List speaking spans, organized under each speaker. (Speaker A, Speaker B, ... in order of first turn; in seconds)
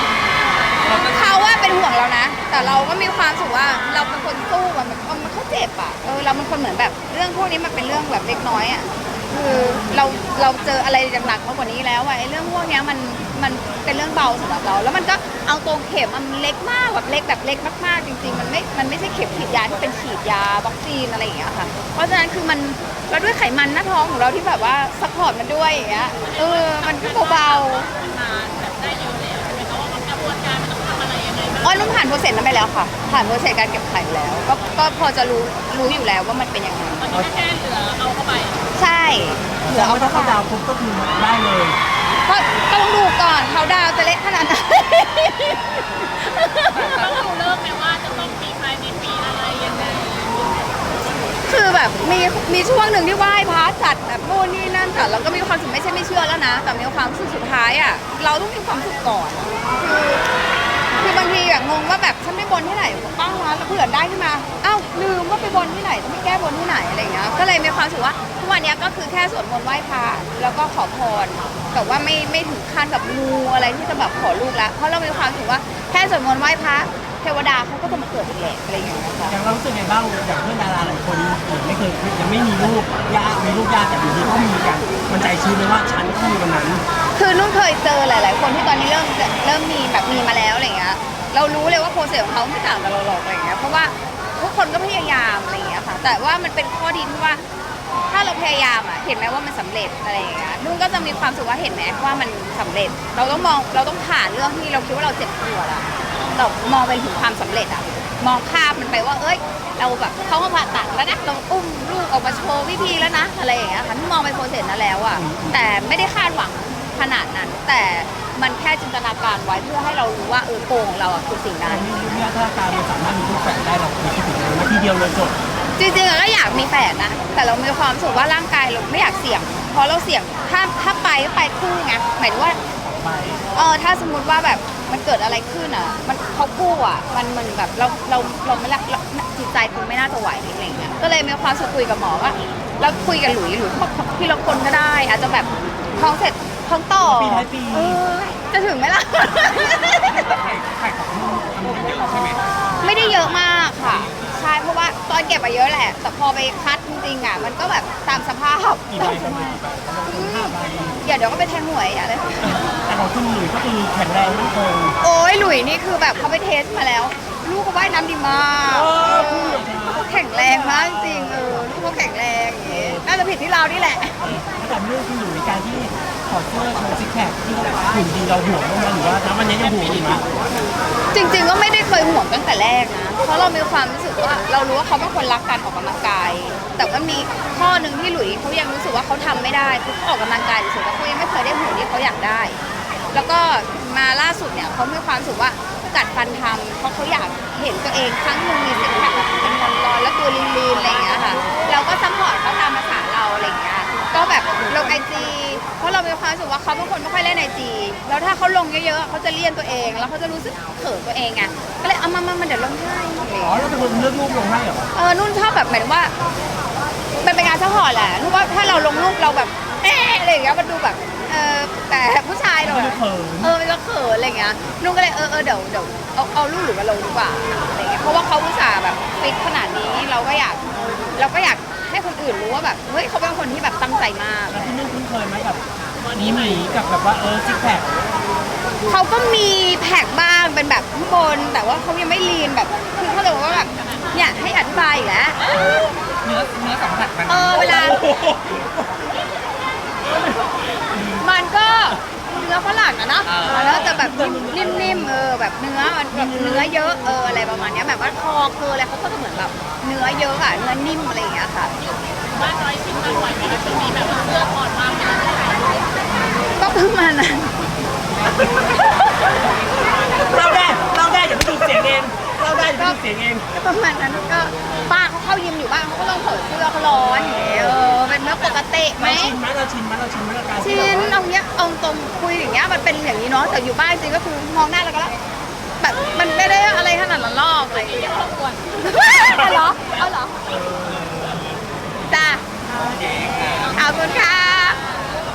Speaker A: 0.8-27.9, 31.6-37.0, 38.8-40.4, 42.2-46.9, 51.5-60.2, 60.9-79.3, 87.2-97.4, 98.1-121.8, 125.8-132.6, 133.5-150.3, 152.8-162.6, 165.0-174.4, 181.1-192.6, 193.1-213.8, 214.9-216.1, 217.2-230.6, 231.1-234.9, 238.9-245.4, 247.3-248.1, 251.2-261.7, 266.6-267.6, 272.6-273.0, 273.5-279.4, 280.6-285.1, 285.8-288.1, 288.8-290.4, 292.1-292.4, 293.7-294.8
Speaker B: 0.9-1.2, 46.7-47.2, 150.0-154.5, 245.5-248.1, 253.2-253.8, 292.8-293.8
Speaker C: 26.2-32.0, 37.0-38.6, 46.8-50.9, 236.0-236.6, 243.5-244.2, 261.8-265.8, 287.7-288.7, 293.7-295.1
Speaker D: 37.1-37.4, 39.6-41.8, 79.3-86.8, 115.1-115.7, 121.7-125.4, 132.8-133.4, 147.0-148.0, 158.9-161.0, 162.4-165.0, 168.7-172.0, 172.7-173.0, 174.2-180.2, 213.4-214.9, 222.6-223.5, 234.5-235.6, 236.1-237.9, 247.7-248.7, 250.1-251.3, 253.4-255.2, 256.1-257.0, 268.4-268.7, 270.1-273.4, 279.0-281.2, 289.1-289.6, 290.4-291.4